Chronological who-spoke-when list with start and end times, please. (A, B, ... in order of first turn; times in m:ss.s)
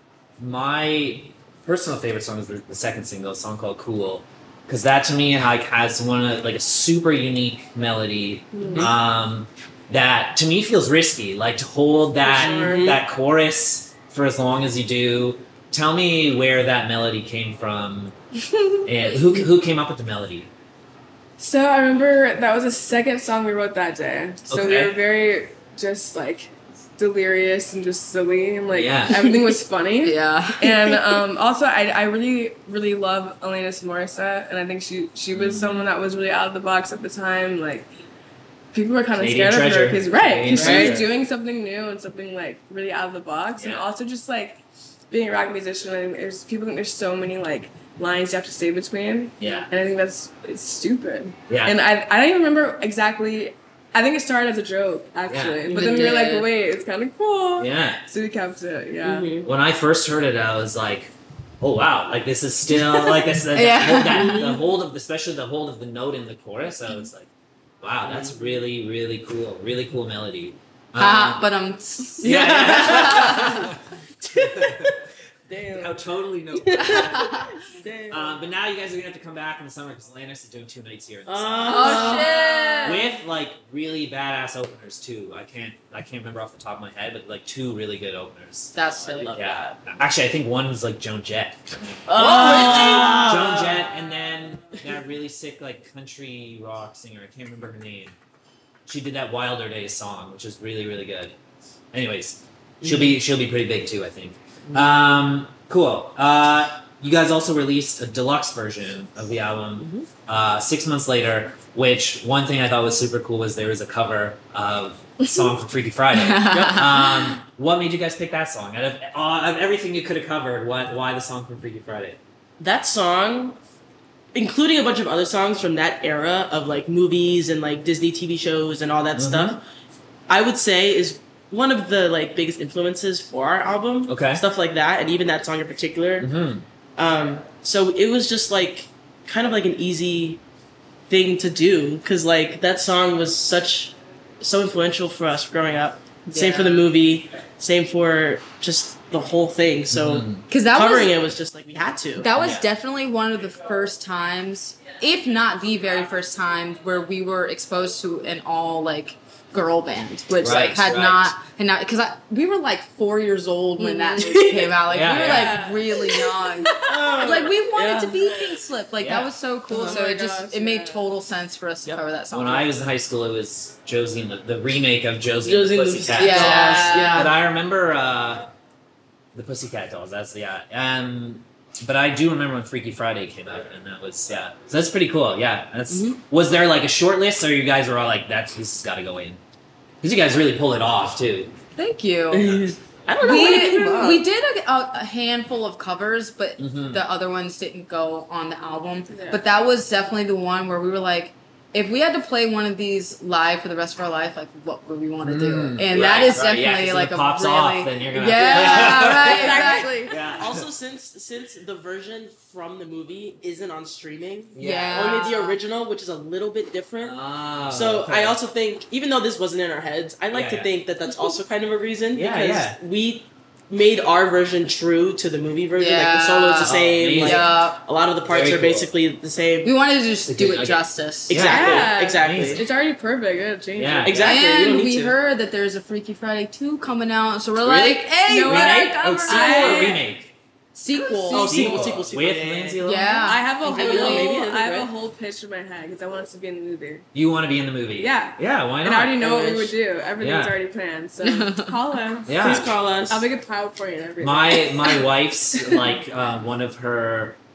0:00.4-0:18.2 A
0:08.5-0:08.9 B
0:12.2-0:13.0 C
0:12.4-0:12.7 B
0:18.5-0:18.8 B
0:18.8-0:20.5 A
0:21.4-0:37.9 B
0:24.5-0:25.0 A
0:28.7-0:29.3 A
0:30.0-0:31.0 D
0:35.3-0:35.9 A
0:38.7-0:59.3 B
0:39.2-0:41.1 A
0:40.5-0:41.0 C
0:43.6-0:43.9 A
0:49.4-0:49.7 A
0:51.5-0:51.8 A
0:55.3-0:55.6 A
0:55.7-0:56.2 C
0:55.7-0:56.5 D
0:57.6-0:58.0 A
0:59.0-0:59.5 C
0:59.4-1:07.3 A
1:03.5-1:04.6 D
1:04.1-1:04.5 C
1:07.8-1:11.5 A
1:08.1-1:08.4 C
1:11.0-1:13.6 D
1:12.2-1:15.0 A
1:12.2-1:13.6 C
1:14.2-1:15.0 C
1:15.5-1:18.4 C
1:15.7-1:17.4 A
1:17.0-1:17.5 D
1:18.1-1:38.2 A
1:21.3-1:22.8 C
1:21.7-1:23.1 D
1:28.7-1:29.4 D
1:29.1-1:29.8 C
1:32.1-1:33.8 C
1:32.2-1:33.2 D
1:38.9-1:41.4 A
1:41.9-2:02.2 A
1:42.8-1:43.2 C
1:49.8-1:50.1 C
1:56.2-1:57.1 D
1:56.5-1:56.9 C
2:02.6-2:03.6 C
2:04.3-2:09.6 C
2:09.2-2:09.6 A
2:10.3-2:16.3 C
2:14.1-2:14.4 A
2:16.2-2:16.6 A
2:17.0-2:20.4 C
2:21.1-2:32.3 C
2:26.3-2:26.9 D
2:29.9-2:30.4 A
2:30.5-2:31.1 D
2:32.2-2:52.7 D
2:32.4-2:32.7 A
2:40.4-2:41.4 A
2:43.8-2:44.4 B
2:44.1-2:44.8 C
2:44.9-2:45.7 A
2:45.2-2:47.3 B
2:46.8-2:48.4 C
2:49.0-2:49.3 A
2:49.7-2:50.0 C
2:49.7-2:51.0 B
2:52.3-2:58.5 A
2:55.4-2:57.4 C
2:56.2-2:57.3 D
2:59.3-3:09.4 A
3:05.9-3:06.2 C
3:10.0-3:11.6 A
3:11.8-3:12.6 D
3:12.3-3:14.2 C
3:13.2-3:30.1 D
3:16.6-3:17.0 A
3:19.1-3:19.4 B
3:25.2-3:30.7 A
3:28.4-3:30.2 B
3:29.6-3:49.7 C
3:34.5-3:35.3 A
3:34.6-3:35.6 D
3:37.0-3:38.4 A
3:40.3-3:40.7 A
3:42.1-3:42.8 A
3:45.7-3:47.8 D
3:46.6-3:47.5 A
3:48.3-3:48.9 A
3:49.6-3:51.4 D
3:50.3-3:52.6 A
3:51.3-3:52.6 C
3:51.4-3:54.2 B
3:53.8-3:54.4 A
3:54.0-3:55.2 C
3:54.2-4:00.0 D
3:57.6-4:00.3 A
3:58.2-4:00.1 B
4:00.7-4:01.9 D
4:01.0-4:01.9 B
4:01.2-4:02.8 C
4:01.4-4:03.2 A
4:02.8-4:04.4 D
4:03.1-4:07.1 B
4:03.6-4:04.9 C
4:07.1-4:09.2 A
4:08.0-4:15.9 B
4:09.2-4:09.8 C
4:10.2-4:10.6 A
4:11.2-4:11.7 D
4:12.3-4:12.7 A
4:12.3-4:13.3 C
4:14.2-4:17.4 A